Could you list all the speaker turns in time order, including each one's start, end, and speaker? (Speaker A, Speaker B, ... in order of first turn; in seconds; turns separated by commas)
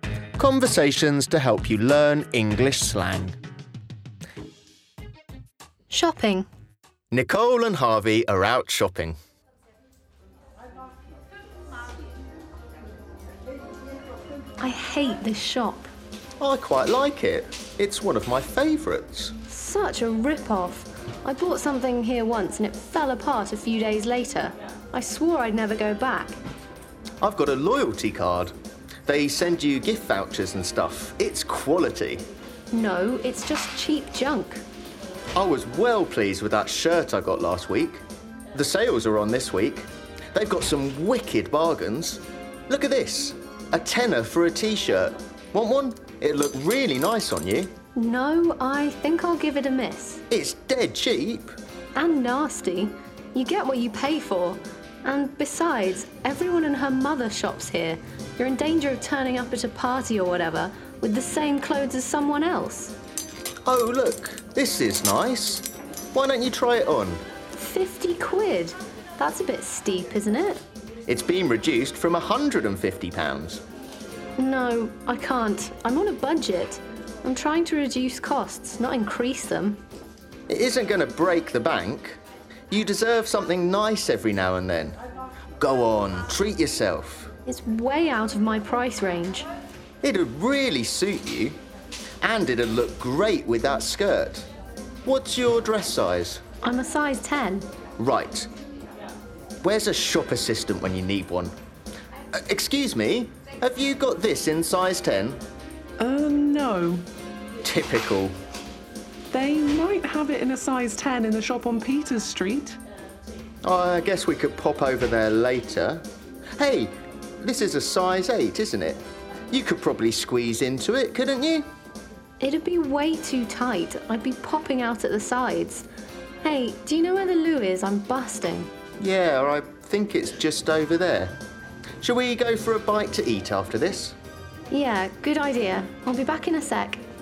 Speaker A: 0.4-3.4, Speaker B: 5.9-6.5, Speaker A: 7.1-9.1, Speaker B: 14.6-15.9, Speaker A: 16.4-19.3, Speaker B: 19.5-26.4, Speaker A: 27.2-28.5, Speaker A: 29.1-32.2, Speaker B: 32.7-34.6, Speaker A: 35.3-38.0, Speaker A: 38.5-47.7, Speaker B: 48.0-50.2, Speaker A: 50.3-51.5, Speaker B: 52.0-62.9, Speaker A: 63.6-67.2, Speaker B: 67.5-70.6, Speaker A: 71.0-73.6, Speaker B: 74.4-79.8, Speaker A: 80.5-82.2, Speaker A: 82.7-85.0, Speaker A: 85.6-87.3, Speaker B: 87.5-89.5, Speaker A: 90.0-91.5, Speaker A: 92.2-94.5, Speaker A: 95.0-96.4, Speaker B: 96.6-97.7, Speaker A: 98.0-98.5, Speaker A: 99.6-101.5, Speaker A: 102.3-105.4, Speaker C: 106.0-107.0, Speaker A: 107.6-108.3, Speaker C: 109.3-112.8, Speaker A: 113.6-116.0, Speaker A: 116.6-119.0, Speaker A: 119.5-121.7, Speaker B: 122.4-125.8, Speaker B: 126.4-128.7, Speaker A: 129.0-131.3, Speaker A: 132.0-134.2, Speaker B: 134.7-137.0